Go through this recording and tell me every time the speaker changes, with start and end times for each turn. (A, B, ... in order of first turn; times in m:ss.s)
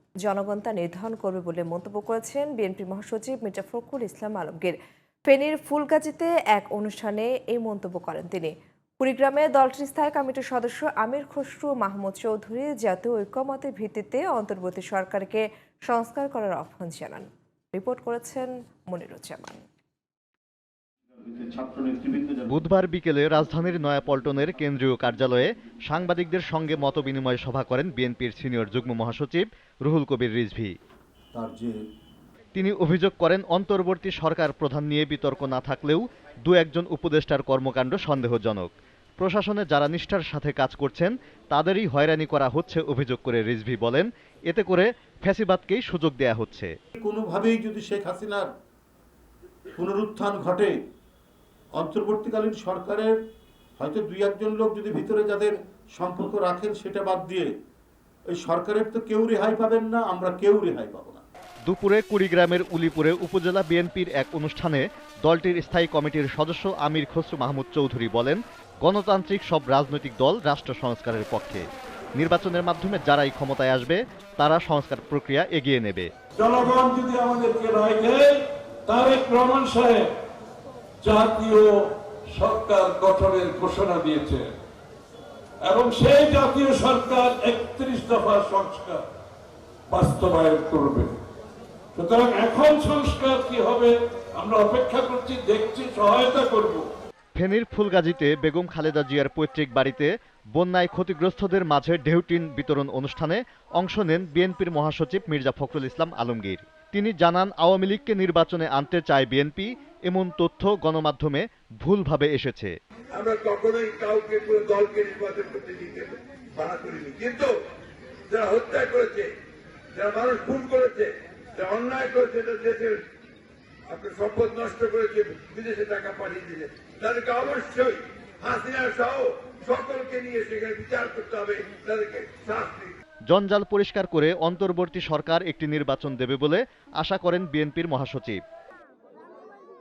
0:00.2-0:04.8 A
0:05.3-0:19.7 A
0:21.2-0:22.6 B
0:22.5-0:30.7 C
0:31.3-0:31.8 B
0:32.6-0:46.7 C
0:47.0-0:48.5 B
0:49.8-0:50.7 B
0:51.8-0:53.2 B
0:53.8-0:57.5 B
0:58.3-1:01.2 B
1:01.7-1:11.6 C
1:12.2-1:16.1 C
1:16.4-1:20.1 D
1:21.0-1:24.5 D
1:25.6-1:29.0 D
1:29.9-1:31.1 D
1:32.0-1:36.8 D
1:37.4-1:52.7 C
1:53.1-1:57.5 E
1:58.3-1:59.3 E
1:59.9-2:03.0 E
2:03.9-2:12.9 E
2:13.3-2:18.4 C